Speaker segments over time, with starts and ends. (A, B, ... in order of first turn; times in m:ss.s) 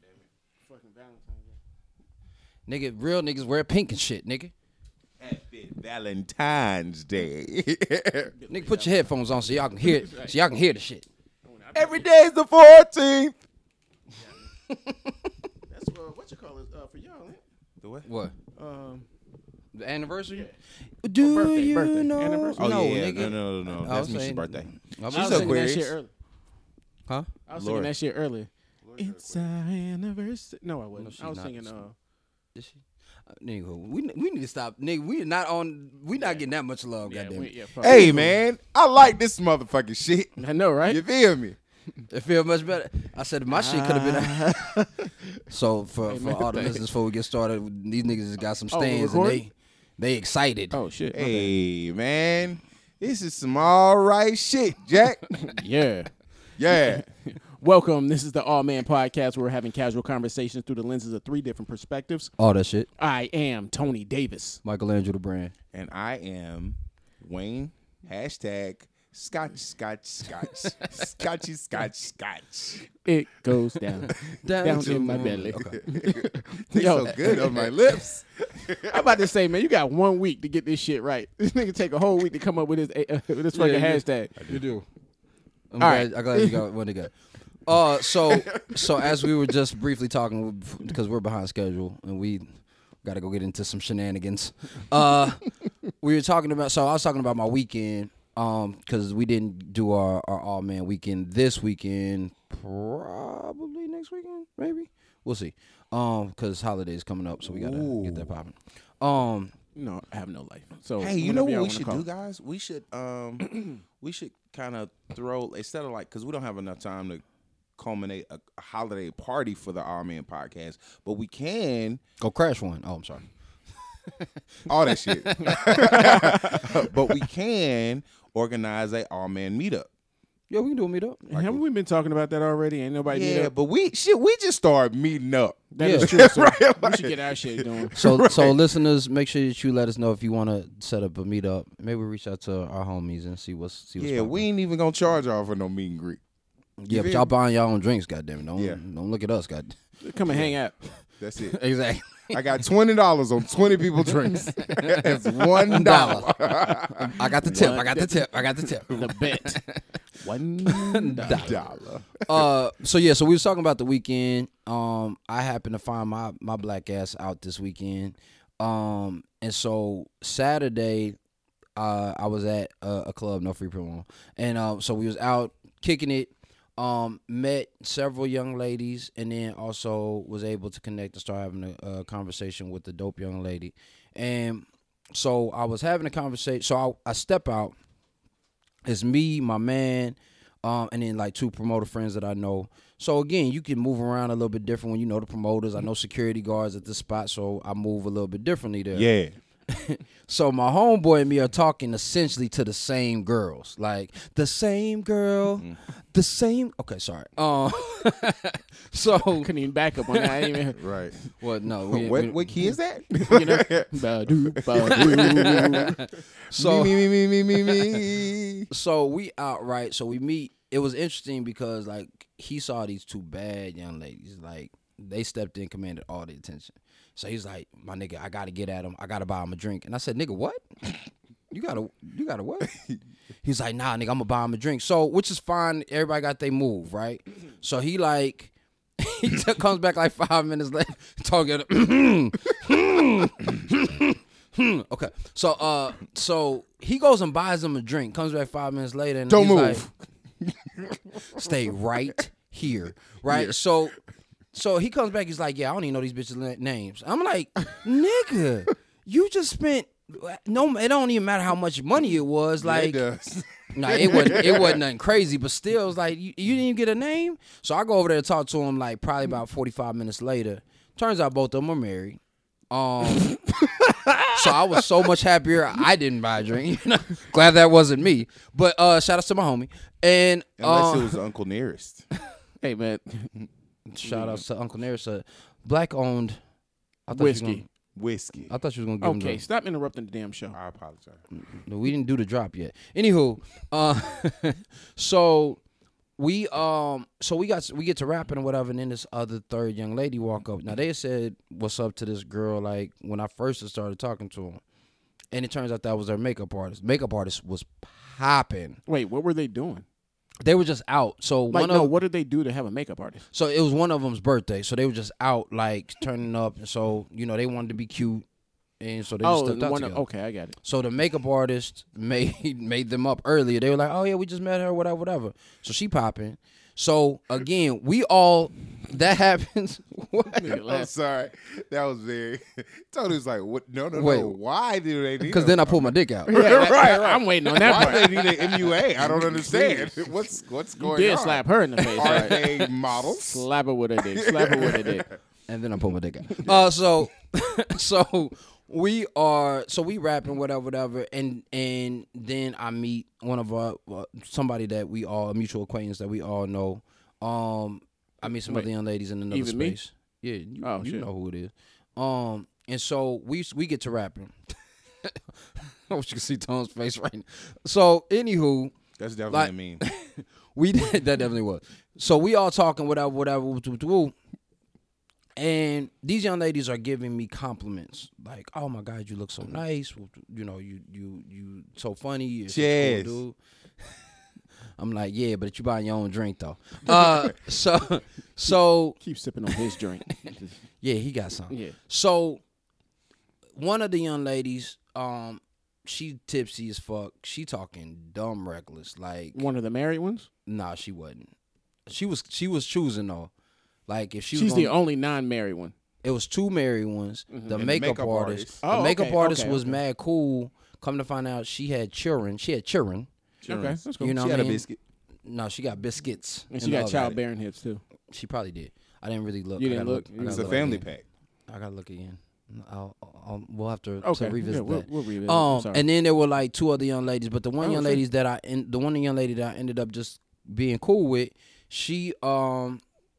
0:00.6-0:01.6 A
0:02.7-0:04.5 B
0:05.2-0:08.3 C
0:08.3-0:09.1 A
0:08.5-0:11.1 B
0:09.8-0:10.4 A
0:11.4-0:12.1 A
0:11.8-0:13.4 C
0:14.7-0:15.3 B
0:15.7-0:17.4 A
0:17.8-0:18.1 C
0:18.0-0:18.4 B
0:18.6-0:19.1 A
0:19.7-0:20.5 B
0:21.0-0:25.7 B
0:21.2-0:22.7 A
0:22.6-0:25.9 C
0:25.1-0:26.1 A
0:27.5-0:32.0 A
0:27.6-0:27.9 C
0:28.9-0:29.5 C
0:31.0-0:31.7 B
0:32.6-0:38.3 B
0:36.2-0:36.4 A
0:37.0-0:38.4 A
0:37.8-0:40.4 C
0:40.4-0:41.0 A
0:40.9-0:41.6 C
0:42.1-0:44.7 B
0:43.5-0:45.4 A
0:45.5-0:50.8 B
0:46.1-0:46.8 A
0:48.7-0:49.4 A
0:50.7-0:51.6 A
0:51.1-0:55.4 C
0:55.3-0:56.1 A
0:56.6-0:57.0 C
0:56.7-1:02.3 A
1:02.4-1:02.9 B
1:03.0-1:04.6 A
1:04.6-1:05.5 B
1:05.7-1:12.9 C
1:13.0-1:17.7 A
1:14.1-1:16.3 B
1:14.7-1:19.3 C
1:17.2-1:17.6 B
1:18.8-1:24.5 A
1:23.5-1:24.9 B
1:25.7-1:27.1 B
1:25.8-1:26.6 A
1:27.7-1:32.5 B
1:28.2-1:29.0 C
1:33.0-1:49.5 B
1:47.4-1:48.3 C
1:49.8-1:52.1 A
1:51.0-1:57.2 C
1:57.8-2:02.0 C
2:02.2-2:03.2 B
2:04.0-2:07.1 B
2:04.7-2:09.9 C
2:05.4-2:06.3 A
2:10.5-2:11.2 B
2:11.3-2:13.5 A
2:11.3-2:11.6 C
2:13.1-2:18.6 C
2:15.7-2:18.0 A
2:15.8-2:16.2 B
2:18.0-2:24.5 B
2:24.0-2:26.2 C
2:26.8-2:29.8 B
2:26.9-2:27.3 C
2:30.0-2:30.8 A
2:30.3-2:30.5 C
2:31.2-2:31.6 C
2:31.5-2:32.4 B
2:32.3-2:37.7 C
2:34.6-2:39.8 B
2:37.4-2:38.2 A
2:38.9-2:39.6 A
2:40.2-2:41.6 A
2:40.7-2:41.6 B
2:41.1-2:42.5 C
2:42.3-2:51.2 B
2:51.8-3:07.8 B
3:08.9-3:19.1 B
3:18.9-3:19.4 C
3:19.7-3:29.5 B
3:29.4-3:30.8 A
3:30.1-3:30.6 B
3:30.8-3:31.1 C
3:31.4-3:32.7 B
3:31.9-3:34.0 C
3:33.2-3:36.0 A
3:34.6-3:38.7 C
3:34.8-3:38.1 B
3:38.7-3:50.6 B
3:51.5-3:52.7 B
3:53.4-4:09.9 B
4:09.3-4:09.9 C
4:10.4-4:11.4 C
4:11.3-4:14.0 B
4:13.3-4:13.6 C
4:14.5-4:23.0 B
4:22.6-4:24.8 C
4:23.7-4:32.2 B
4:32.7-4:33.4 B
4:33.2-4:34.8 A
4:34.3-4:41.2 B
4:40.6-4:42.1 C
4:42.6-4:43.3 A
4:43.9-4:46.4 B
4:44.0-4:44.4 A
4:47.1-4:47.7 B
4:47.1-4:47.6 A
4:48.0-4:48.5 C
4:48.5-4:49.4 B
4:49.0-4:50.6 A
4:50.5-4:51.2 C
4:51.5-4:55.6 B
4:56.2-5:04.6 B
5:05.3-5:08.8 B
5:08.9-5:09.8 A
5:10.4-5:11.9 B
5:11.5-5:13.3 A
5:13.3-5:18.3 B
5:18.8-5:20.0 B
5:19.2-5:20.6 A
5:20.6-5:30.6 B
5:30.3-5:30.9 A
5:30.5-5:43.4 C
5:33.9-5:34.4 B
5:35.2-5:36.4 B
5:36.3-5:40.0 A
5:37.6-5:38.2 B
5:40.8-5:45.1 A
5:42.0-5:42.3 B
5:44.1-5:45.0 C
5:45.5-6:08.8 B
5:59.3-5:59.8 A
6:00.6-6:01.1 A
6:09.0-6:09.8 C
6:09.3-6:14.1 B
6:15.4-6:23.4 B
6:22.5-6:23.2 C
6:24.8-6:29.0 B
6:29.0-6:30.6 A
6:30.8-6:32.4 B
6:31.5-6:31.8 A
6:33.6-6:39.4 B
6:39.3-6:40.3 A
6:40.5-6:41.3 B
6:41.9-6:43.3 B
6:43.9-6:44.8 B
6:44.3-6:45.7 A
6:46.0-6:53.1 B
6:47.3-6:47.6 A
6:47.5-6:48.6 C
6:48.6-6:49.8 A
6:53.4-6:54.8 C
6:53.5-6:54.3 A
6:54.0-6:54.7 B
6:55.2-6:57.2 B
6:56.5-6:57.8 A
6:58.1-7:00.9 B
6:59.6-7:00.7 A
7:00.2-7:01.0 C
7:01.5-7:12.8 B
7:04.0-7:05.8 A
7:07.6-7:08.0 A